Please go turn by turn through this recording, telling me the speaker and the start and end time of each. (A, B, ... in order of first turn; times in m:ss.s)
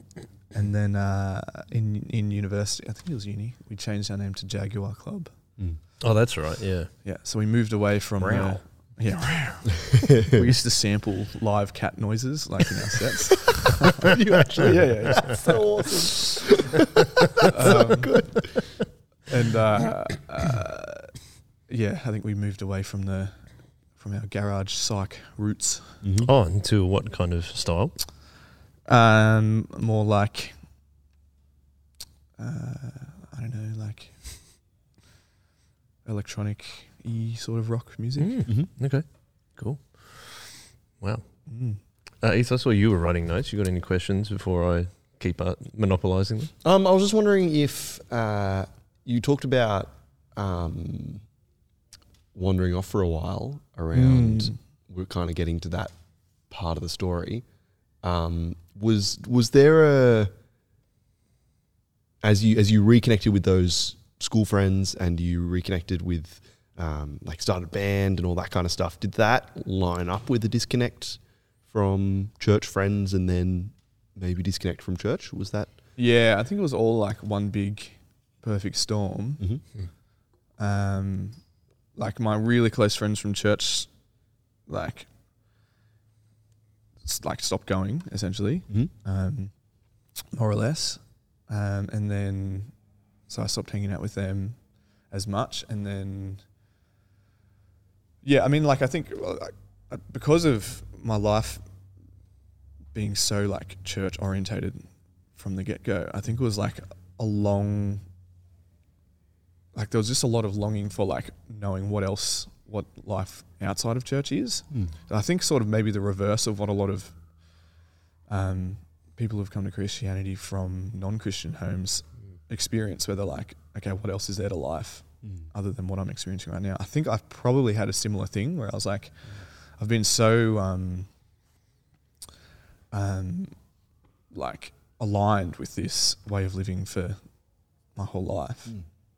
0:00.5-0:05.3 A
0:06.0-0:06.9 B
0:07.0-0:15.9 A
0:08.2-0:08.6 B
0:10.0-0:10.4 C
0:14.0-0:18.6 C
0:14.6-0:15.3 B
0:17.4-0:18.4 A
0:19.3-0:21.2 A
0:21.7-0:23.4 A
0:24.0-0:26.0 A
0:26.0-0:26.3 C
0:26.2-0:28.0 B
0:28.8-0:30.6 A
0:32.4-0:34.4 A
0:36.0-0:38.5 A
0:38.2-0:41.3 B
0:41.5-0:41.8 A
0:42.2-0:46.5 B
0:46.6-0:51.2 C
0:52.3-0:55.9 C
0:53.9-0:54.6 A
0:56.5-0:57.4 C
0:58.0-1:00.3 C
1:02.2-1:15.8 C
1:16.0-1:19.6 A
1:20.6-1:21.4 A
1:21.9-1:23.9 A
1:24.7-1:25.1 A
1:27.0-1:29.5 A
1:30.3-1:32.7 A
1:33.3-1:34.6 A
1:35.1-1:36.4 A
1:38.2-1:41.6 A
1:42.9-1:48.0 A
1:49.7-1:57.2 A
1:58.3-2:11.1 A
2:12.9-2:13.5 A
2:14.3-2:17.2 A
2:17.9-2:18.8 A